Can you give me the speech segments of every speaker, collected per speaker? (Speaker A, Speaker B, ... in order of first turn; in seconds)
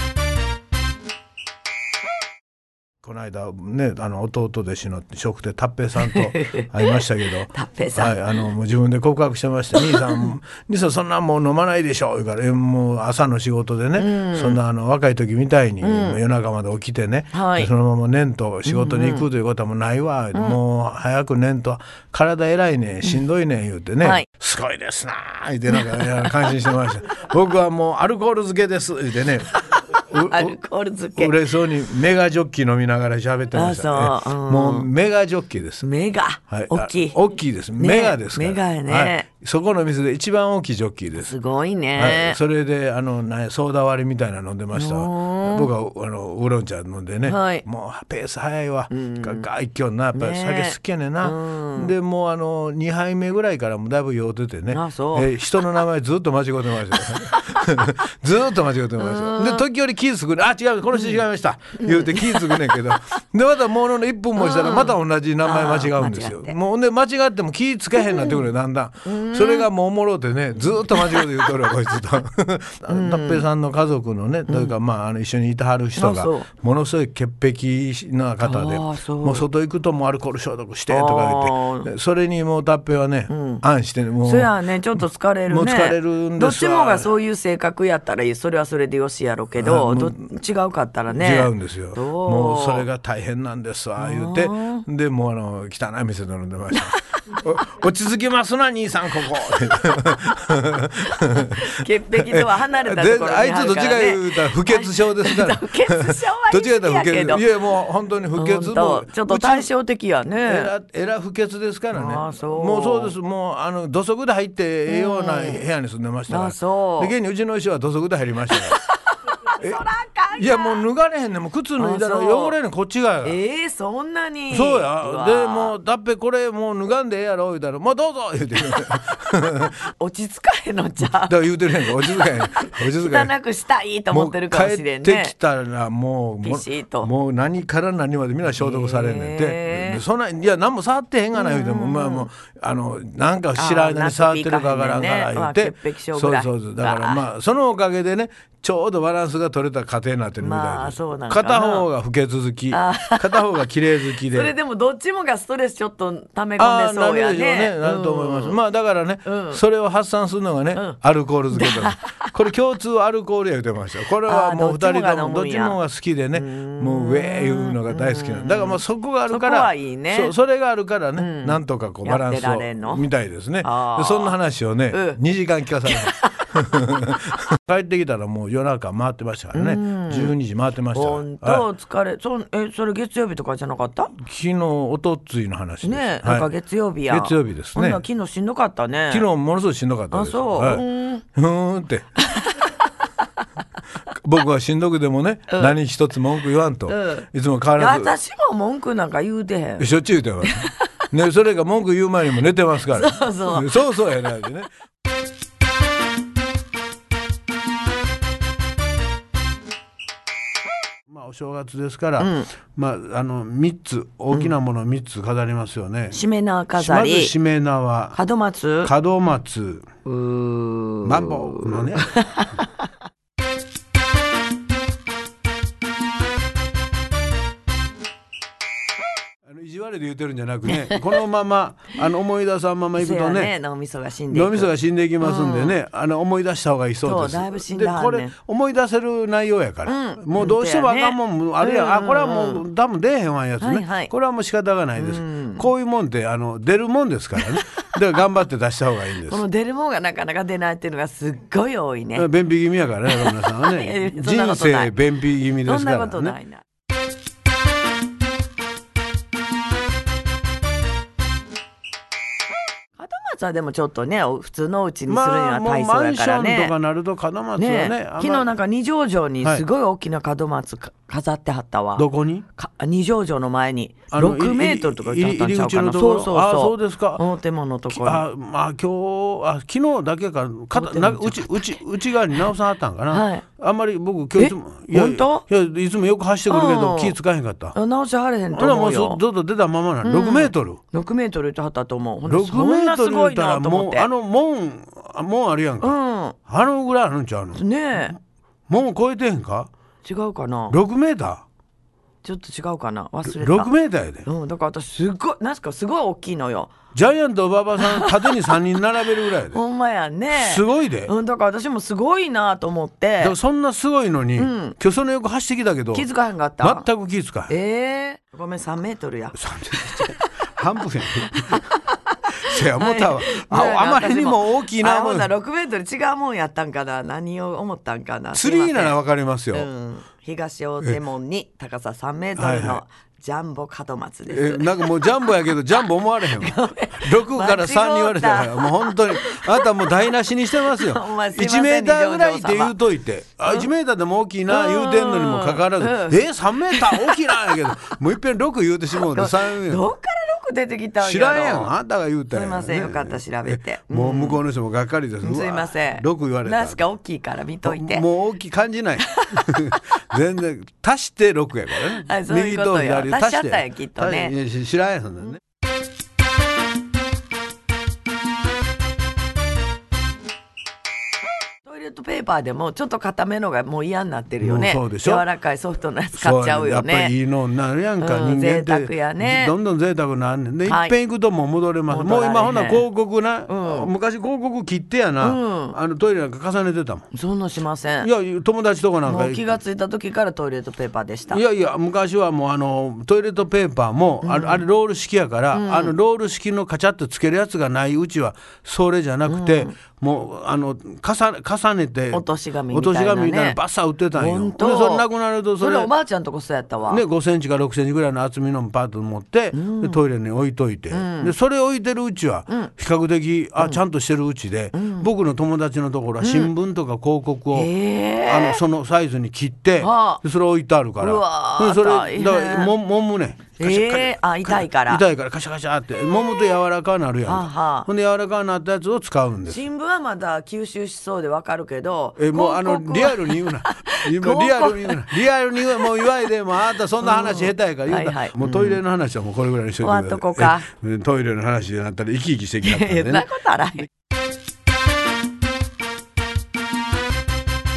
Speaker A: 3.0-30.6, 31.1-35.8, 36.5-41.3, 42.0-87.1, 89.6-90.2, 91.1-109.7, 110.4-118.8, 119.6-123.4, 124.5-129.8, 131.0-133.3, 134.1-154.5, 156.6-181.6, 184.1-186.5, 187.1-188.0, 189.1-192.1, 194.1-198.1, 199.8-204.7, 211.1-216.2, 216.8-218.2, 218.8-219.8, 221.0-222.1, 229.4-233.5, 234.3-249.4, 252.1-256.4, 265.1-268.5, 272.0-272.4, 274.1-277.2, 277.9-287.7, 288.5-290.8, 292.3-298.1, 298.7-299.7, 300.7-301.4, 303.2-304.2, 306.9-309.6, 310.3-311.1, 313.2-316.1, 316.6-317.5, 319.3-321.6, 322.3-325.3, 328.3-329.7, 332.4-332.8, 334.3-349.9, 351.0-356.8, 357.6-365.4, 374.4-375.2, 376.1-387.1, 388.0-389.5, 391.3-405.9, 406.9-417.7, 418.2-429.6, 432.2-443.3
Speaker B: 6.0-7.0, 7.5-8.2, 9.8-10.2, 14.0-14.6, 15.8-16.2, 17.3-17.7, 18.6-19.2, 24.0-24.3, 25.8-26.2, 29.7-31.3, 33.5-34.9, 35.8-37.2, 37.8-39.3, 41.1-42.4, 44.7-45.7, 47.2-47.6, 48.9-49.5, 50.1-51.9, 54.7-55.4, 57.0-57.6, 59.0-59.6, 61.8-62.6, 64.4-66.5, 68.0-68.4, 69.0-69.7, 70.9-71.5, 72.9-73.4, 74.5-74.7, 76.0-76.5, 78.4-79.4, 80.9-81.9, 83.3-83.6, 84.2-92.8, 94.0-94.8, 101.1-107.5, 108.3-110.7, 111.9-113.1, 114.9-115.6, 116.3-117.1, 118.5-120.8, 121.8-122.5, 123.2-125.7, 130.0-135.3, 136.4-137.1, 138.6-140.0, 141.3-142.3, 143.6-147.2, 150.4-151.8, 152.7-153.5, 154.2-158.6, 159.2-159.6, 161.5-162.3, 164.2-165.8, 166.3-170.3, 171.2-173.0, 173.6-174.3, 174.9-175.2, 175.9-176.5, 179.5-180.3, 180.9-184.1, 185.8-189.2, 190.1-191.2, 192.2-192.7, 195.5-195.7, 196.9-199.9, 200.4-200.7, 202.9-204.0, 212.2-212.5, 216.1-217.3, 218.1-218.9, 220.1-222.7, 233.0-235.8, 237.0-238.3, 239.8-242.6, 243.6-244.1, 245.0-245.7, 247.5-247.8, 249.3-252.3, 253.1-254.9, 255.6-256.6, 263.0-266.7, 267.6-278.2, 280.7-281.8, 283.1-283.4, 284.4-285.4, 286.5-287.1, 287.7-289.2, 290.0-294.1, 295.8-296.4, 297.5-298.1, 300.0-300.8, 302.2-303.7, 304.2-306.7, 307.8-308.3, 309.5-313.4, 314.4-314.8, 315.9-316.9, 317.5-320.4, 321.2-328.9, 329.5-335.6, 336.2-342.8, 344.5-347.6, 349.0-351.7, 352.3-354.4, 355.2-358.1, 359.1-359.8, 361.9-364.3, 371.6-377.1, 378.0-379.5, 380.6-380.9, 381.9-382.9, 383.5-383.9, 385.2-385.8, 387.1-388.1, 389.1-391.4, 394.2-394.6, 395.5-395.9, 399.3-399.7, 402.1-403.6, 404.1-405.1, 405.6-407.0, 409.5-410.0, 410.9-411.3, 414.7-415.1, 416.2-416.5, 417.5-418.6, 419.8-420.2, 421.0-422.7, 423.6-425.0, 427.2-427.9, 429.5-436.3, 437.0-438.8, 439.8-440.7, 442.6-443.9